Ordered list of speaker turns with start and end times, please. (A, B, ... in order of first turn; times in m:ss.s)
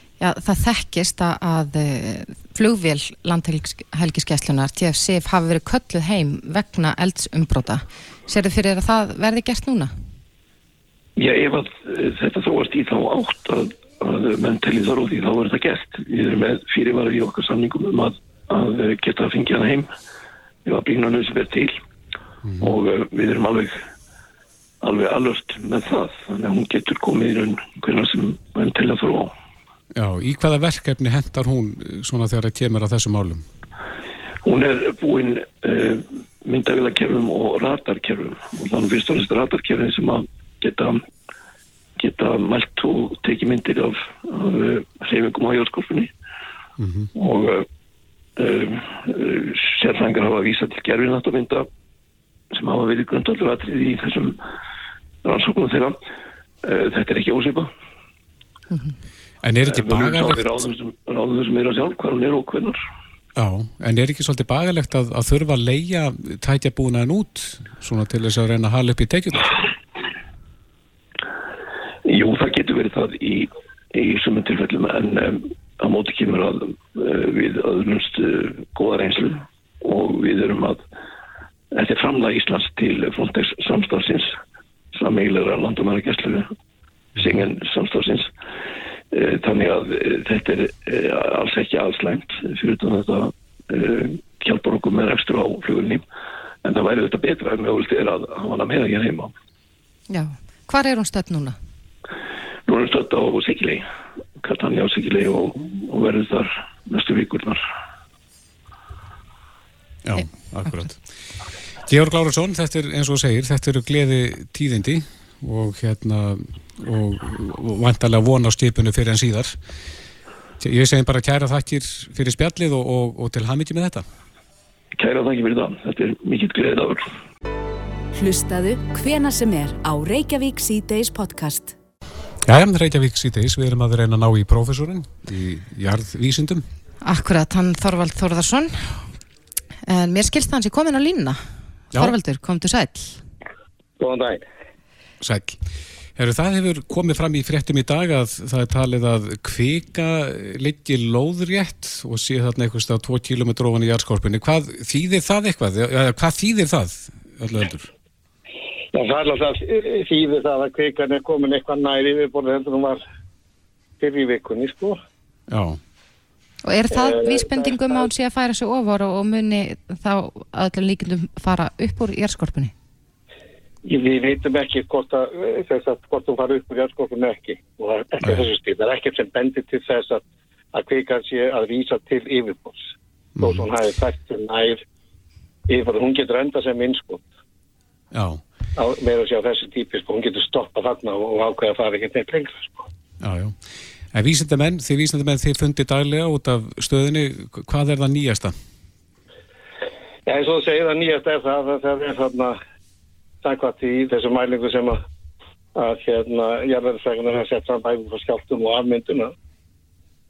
0:00.2-0:09.9 A
0:11.2-0:19.9 B
0:20.6-0:21.7 B
0:22.4-0:22.8 C
0:22.6-0:23.8 B
0:24.8-0:29.3 B
0:29.9-0:33.4 C
0:34.4-0:41.0 B
0:42.0-0:46.1 B
0:46.8-0:47.1 C
0:47.1-0:47.7 B
0:48.4-0:51.7 B
0:52.5-0:54.4 B
0:55.2-0:56.0 B
0:56.6-0:57.7 B
0:59.4-1:00.5 C
0:59.6-1:02.8 B
1:03.4-1:09.5 C
1:12.0-1:20.8 B
1:21.7-1:24.3 B
1:24.9-1:26.5 B
1:27.2-1:28.3 B
1:29.1-1:36.0 B
1:36.6-1:39.3 B
1:40.1-1:41.6 A
1:42.7-1:43.8 B
1:44.4-1:47.6 B
1:50.0-1:51.0 C
1:51.8-1:59.6 C
2:00.6-2:04.0 C
2:05.0-2:07.1 B
2:08.1-2:11.7 D
2:12.4-2:16.6 C
2:17.0-2:19.0 A
2:19.8-2:23.2 A
2:24.0-2:24.4 E
2:25.2-2:25.6 C
2:26.2-2:37.9 C
2:38.9-2:43.0 E
2:44.0-2:45.0 E
2:45.5-2:45.8 C
2:46.6-2:52.7 A
2:46.9-2:48.1 E
2:53.8-3:00.2 E
2:58.2-2:58.5 C
3:00.7-3:02.8 E
3:03.4-3:03.6 C
3:03.4-3:04.8 E
3:05.7-3:07.2 E
3:08.1-3:08.4 C
3:08.8-3:12.8 E
3:13.2-3:13.6 C
3:14.1-3:18.6 C
3:20.2-3:22.6 E
3:23.4-3:25.0 E
3:25.7-3:29.3 E